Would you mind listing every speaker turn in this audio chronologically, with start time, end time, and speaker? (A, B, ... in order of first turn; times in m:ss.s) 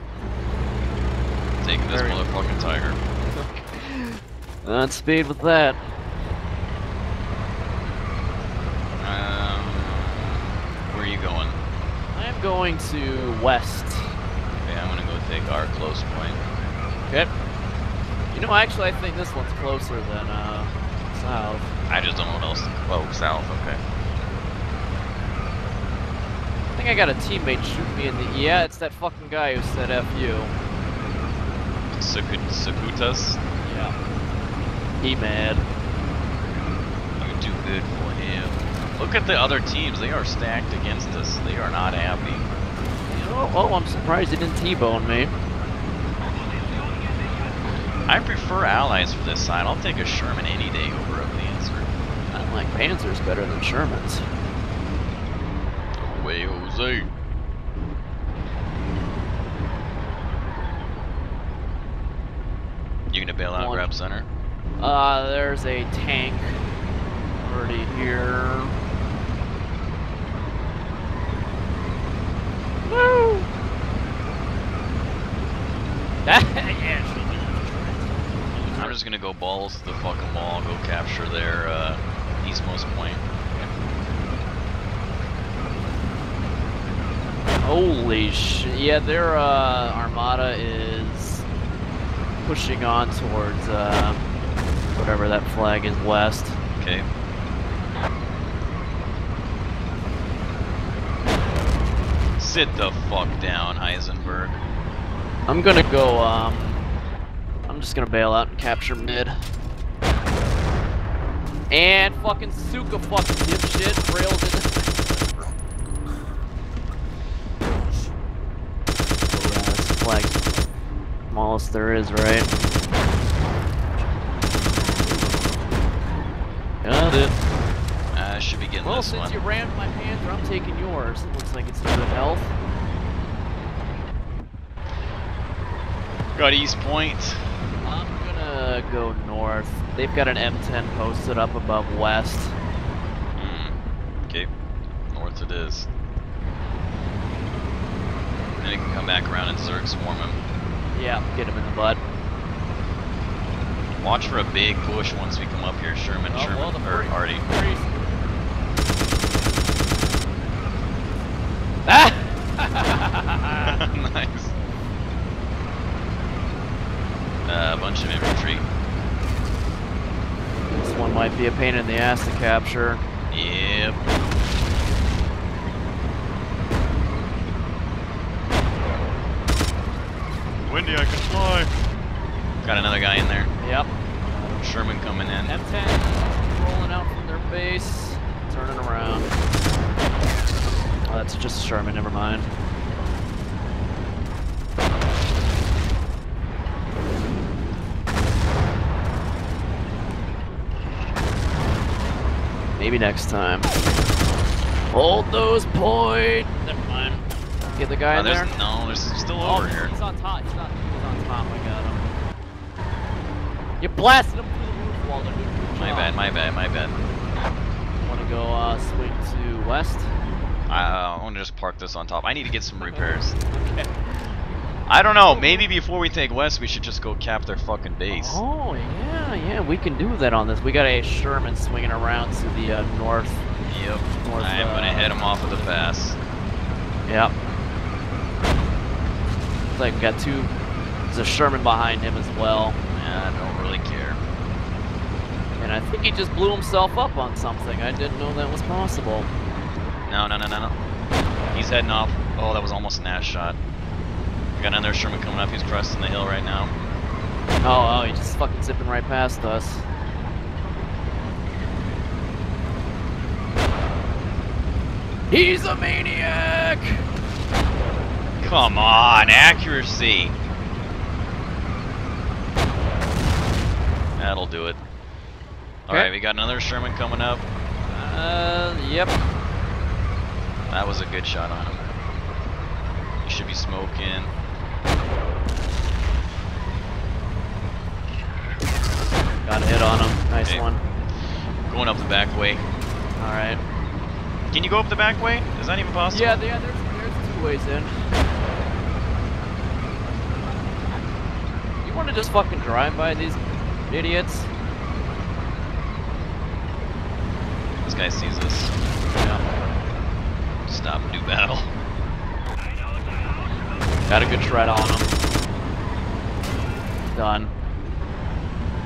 0:01.6-0:03.0 A
0:01.9-0:02.2 B
0:03.2-0:05.8 B
0:09.0-0:11.6 A
0:12.1-0:14.1 B
0:14.6-0:16.4 A
0:18.3-0:21.7 B
0:21.9-0:23.8 A
0:26.8-0:30.5 B
0:31.9-0:33.4 A
0:33.6-0:33.9 B
0:35.0-0:35.6 B
0:37.2-0:42.4 A
0:43.1-0:45.3 B
0:48.1-0:51.9 A
0:52.3-0:54.2 B
0:56.0-0:57.1 A
1:03.1-1:04.3 A
1:03.5-1:03.9 B
1:04.8-1:06.6 B
1:07.4-1:08.8 B
1:12.8-1:13.5 B
1:16.2-1:19.0 B
1:18.7-1:23.2 A
1:27.6-1:31.5 B
1:32.4-1:34.2 B
1:34.9-1:36.6 B
1:36.8-1:37.1 A
1:42.4-1:44.6 A
1:45.5-1:46.8 B
1:47.7-1:49.3 B
1:51.7-1:55.2 B
1:59.3-2:00.4 B
2:01.3-2:02.5 B
2:06.8-2:07.3 B
2:08.1-2:09.4 A
2:08.8-2:12.5 B
2:16.3-2:17.5 A
2:17.8-2:22.6 B
2:23.4-2:23.8 A
2:25.1-2:25.9 A
2:28.6-2:30.4 A
2:30.9-2:32.0 B
2:34.0-2:37.4 A
2:36.3-2:37.9 B
2:41.8-2:43.8 B
2:43.7-2:44.5 A
2:47.4-2:48.6 A
2:50.8-2:53.0 B
2:53.3-2:54.0 A
3:00.6-3:01.7 A
3:02.6-3:03.5 A
3:03.6-3:04.6 B
3:04.6-3:05.5 A
3:05.4-3:09.3 B
3:11.1-3:12.5 B
3:22.8-3:23.7 B
3:24.9-3:27.2 B
3:27.8-3:28.5 B
3:28.1-3:29.9 A
3:29.4-3:32.1 B
3:33.8-3:36.2 B
3:35.8-3:37.0 A
3:38.0-3:40.1 B
3:40.7-3:43.4 A
3:42.8-3:44.4 B
3:44.9-3:48.4 A
3:45.2-3:45.7 B
3:48.1-3:53.5 B
3:53.7-3:56.2 A
3:54.2-3:55.7 B
3:59.7-4:00.5 B
4:01.1-4:02.8 B
4:02.9-4:04.2 A
4:05.6-4:09.3 B
4:10.1-4:10.7 A
4:11.5-4:13.6 A
4:14.5-4:16.7 A
4:17.6-4:19.8 B
4:25.3-4:27.0 B
4:28.4-4:30.3 A
4:34.2-4:34.8 A
4:35.9-4:37.4 A
4:37.9-4:39.2 B
4:40.7-4:41.8 A
4:43.2-4:44.3 A
4:49.4-4:50.8 B
4:51.7-4:52.6 A
4:53.2-4:53.6 B
4:54.5-4:56.4 A
4:56.1-4:57.9 B
5:01.8-5:04.5 B
5:07.8-5:08.7 A
5:09.1-5:09.4 B
5:10.7-5:11.7 A
5:14.1-5:15.1 B
5:17.1-5:17.5 B